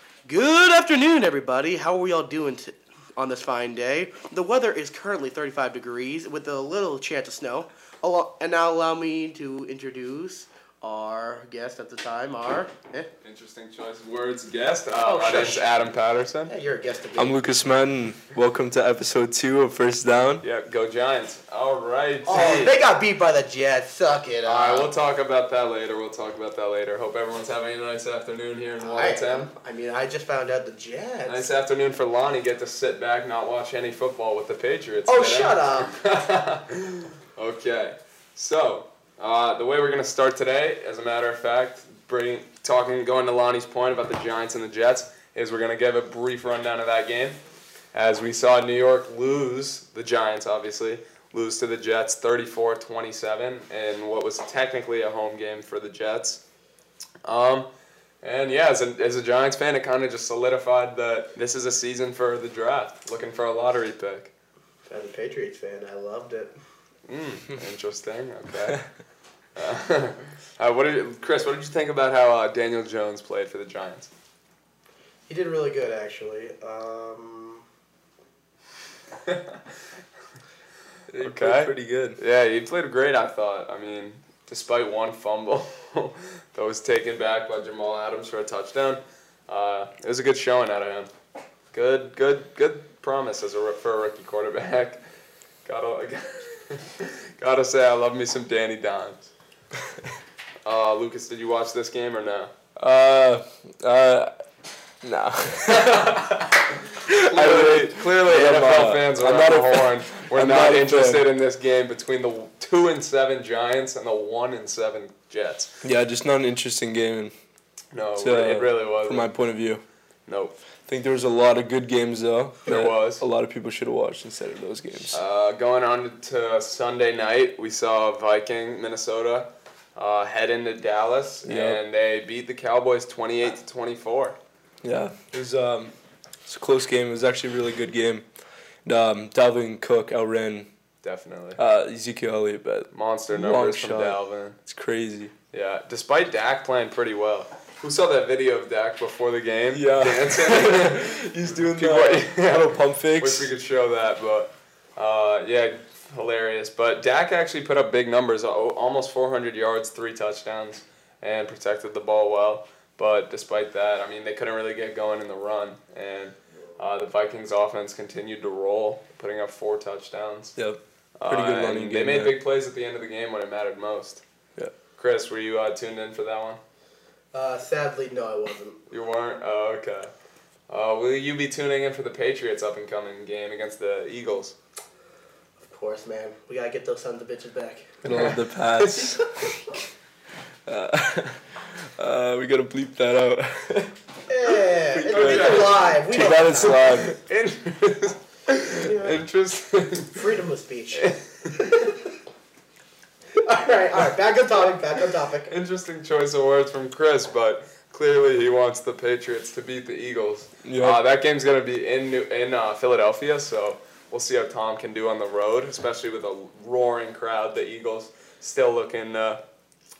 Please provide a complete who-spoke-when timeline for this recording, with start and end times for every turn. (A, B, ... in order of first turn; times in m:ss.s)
0:00.2-0:13.1 A
0:13.2-0:16.5 B
0:15.0-0:15.7 A
0:16.4-0:17.4 A
0:17.2-0:20.4 C
0:20.4-0:22.7 B
0:22.2-0:24.9 A
0:24.4-0:29.5 B
0:28.8-0:31.5 A
0:31.2-0:47.4 B
0:35.1-0:35.9 A
0:47.9-0:56.4 B
0:57.2-0:57.7 B
0:58.2-1:04.3 B
1:04.9-1:06.5 A
1:07.1-1:08.8 B
1:09.6-1:14.1 B
1:15.3-1:17.6 A
1:19.3-1:19.5 B
1:21.1-1:22.2 C
1:21.2-1:31.1 B
1:31.7-1:35.0 B
1:35.6-1:39.2 B
1:40.6-1:42.5 B
1:42.8-1:44.3 C
1:45.0-1:46.1 C
1:45.7-1:55.7 B
1:47.1-1:51.3 C
1:55.8-1:57.3 C
1:57.9-1:59.3 B
1:58.2-1:59.8 C
2:00.3-2:00.6 B
2:00.8-2:05.2 C
2:02.6-2:03.2 B
2:05.1-2:14.4 B
2:11.4-2:11.8 C
2:14.8-2:15.9 C
2:16.4-2:18.2 C
2:18.8-2:20.7 C
2:21.0-2:21.6 B
2:21.6-2:25.3 C
2:22.9-2:24.6 B
2:25.5-2:50.6 B
2:29.7-2:31.0 C
2:31.7-2:33.5 C
2:50.6-2:52.3 C
2:51.2-2:54.2 B
2:55.0-2:56.6 B
2:57.3-2:58.8 A
2:58.9-3:00.1 B
3:00.7-3:04.6 B
3:05.6-3:08.0 A
3:08.0-3:09.3 C
3:08.0-3:09.2 B
3:10.6-3:13.9 C
3:14.3-3:17.0 A
3:14.8-3:17.1 C
3:15.1-3:20.3 B
3:18.8-3:19.2 A
3:20.1-3:22.0 A
3:20.9-3:21.5 B
3:23.4-3:25.5 A
3:25.5-3:39.4 B
3:30.6-3:31.0 C